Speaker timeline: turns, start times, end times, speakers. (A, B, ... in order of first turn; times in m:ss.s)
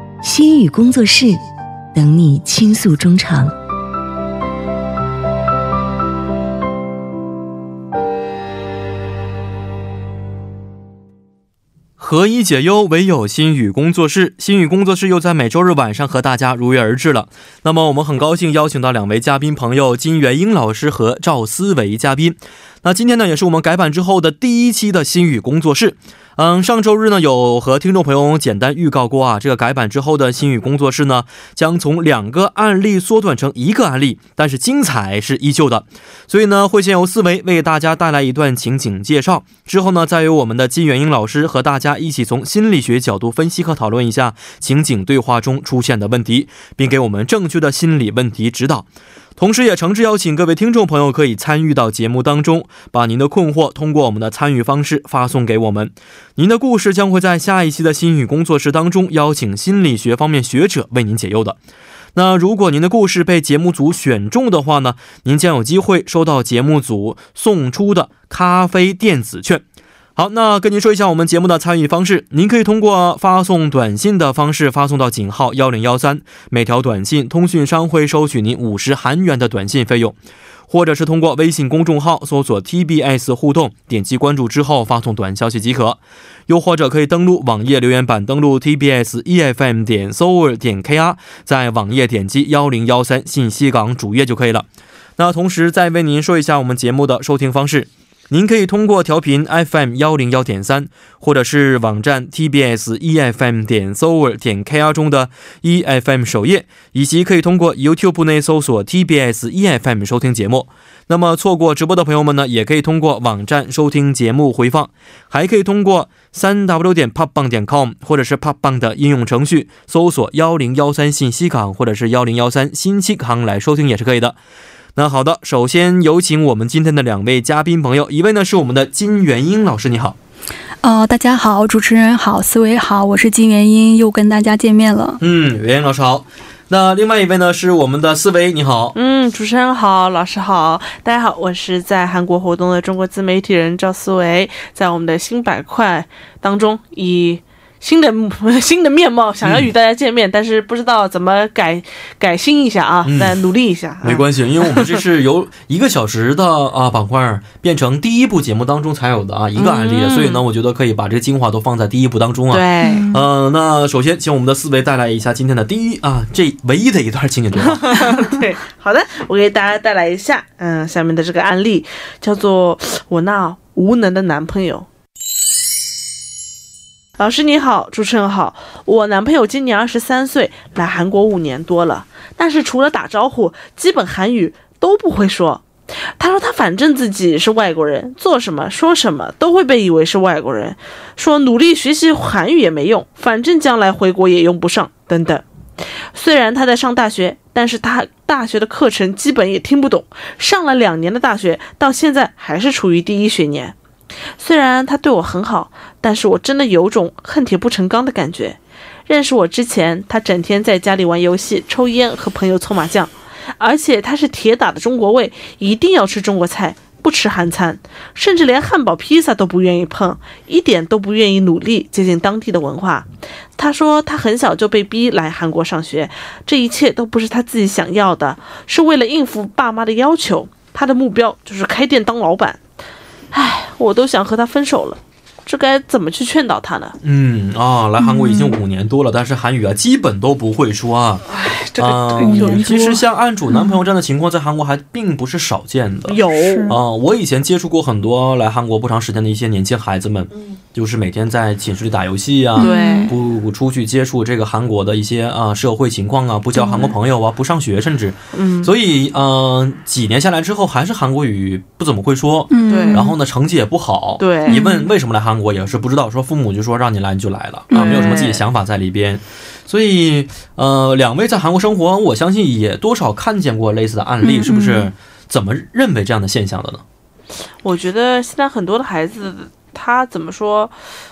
0:00.2-0:01.4 A
0:02.0-0:03.5 A
0:12.0-1:01.6 B
1:02.2-1:09.6 B
1:10.2-1:20.2 B
1:20.7-1:34.7 B
1:35.2-2:04.4 B
2:05.0-2:10.2 B
2:10.8-2:15.2 C
2:15.2-2:19.0 B
2:18.9-2:35.0 D
2:29.4-2:29.7 B
2:33.0-2:33.4 B
2:34.0-2:48.2 B
2:39.6-2:40.4 D
2:42.5-2:43.1 D
2:42.8-2:43.2 C
2:47.6-2:54.9 D
2:57.2-3:05.6 D
3:06.2-3:15.4 D
3:16.1-3:23.8 D
3:24.4-3:52.6 D
3:53.3-3:57.0 D
3:57.0-4:01.2 B
3:58.0-3:58.6 C
4:01.3-4:03.0 D
4:01.8-4:36.8 B
4:02.2-4:03.0 C
4:03.5-4:03.8 C
4:06.1-4:06.7 D
4:06.3-4:06.8 C
4:12.6-4:13.1 C
4:12.6-4:13.1 D
4:16.6-4:16.9 C
4:18.3-4:18.7 D
4:22.5-4:23.2 C
4:22.7-4:23.1 D
4:24.2-4:24.6 D
4:24.5-4:24.9 C
4:27.7-4:28.2 C
4:27.7-4:28.4 D
4:34.2-4:34.9 C
4:37.6-4:40.7 D